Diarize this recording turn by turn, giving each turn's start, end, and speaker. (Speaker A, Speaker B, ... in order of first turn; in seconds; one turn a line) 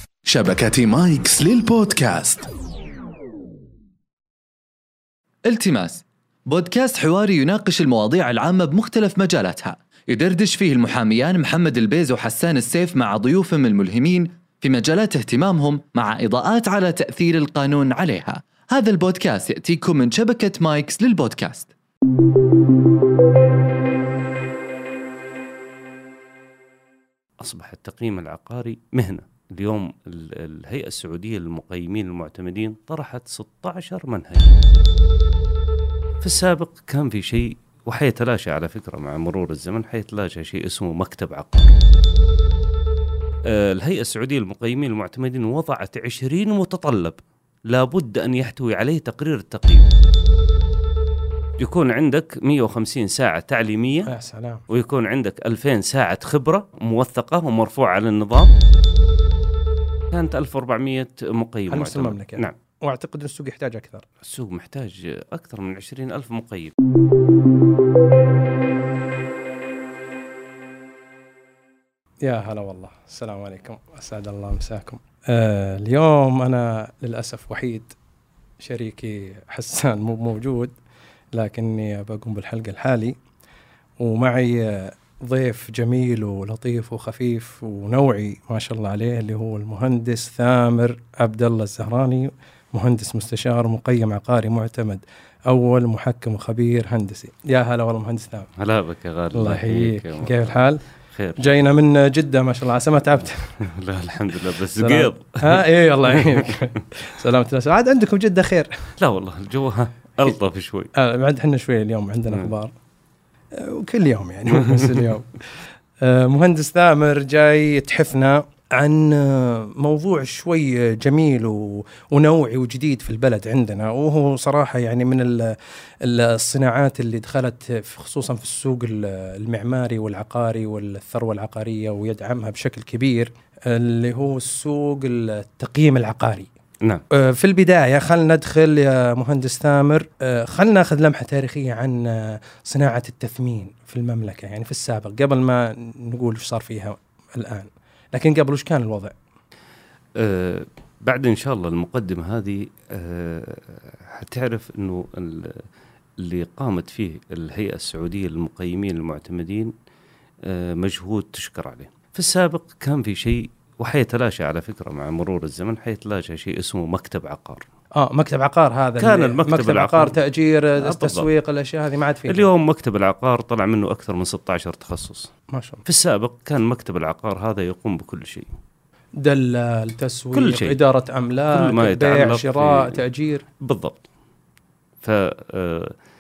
Speaker A: 0.3-2.5
Speaker B: 5.5-21.7
Speaker C: 27.4-34.6
Speaker C: 36.2-41.7
Speaker C: 43.5-49.9
Speaker C: 51.6-54.1
Speaker D: 54.1-54.6
Speaker C: 54.7-58.5
Speaker C: 60.1-62.5
Speaker D: 61.7-64.1
Speaker C: 64.2-66.7
Speaker D: 72.2-78.0
Speaker D: 78.6-80.8
Speaker D: 81.3-83.2
Speaker D: 84.0-98.5
Speaker C: 98.6-100.5
Speaker D: 99.3-100.8
Speaker C: 101.1-101.6
Speaker D: 101.4-103.6
Speaker C: 103.6-106.6
Speaker D: 104.8-108.8
Speaker C: 109.0-110.9
Speaker D: 111.0-112.7
Speaker D: 113.5-115.5
Speaker C: 114.6-115.1
Speaker D: 116.0-136.5
Speaker D: 137.1-149.2
Speaker C: 150.2-155.6
Speaker C: 156.2-159.7
Speaker C: 160.4-167.7
Speaker D: 167.9-172.5
Speaker C: 169.0-170.2
Speaker C: 170.8-171.2
Speaker C: 172.3-175.3
Speaker D: 175.5-175.8
Speaker C: 175.9-178.5
Speaker D: 179.2-183.4
Speaker C: 180.3-180.8
Speaker C: 181.5-183.0
Speaker C: 183.6-184.0
Speaker C: 185.0-185.9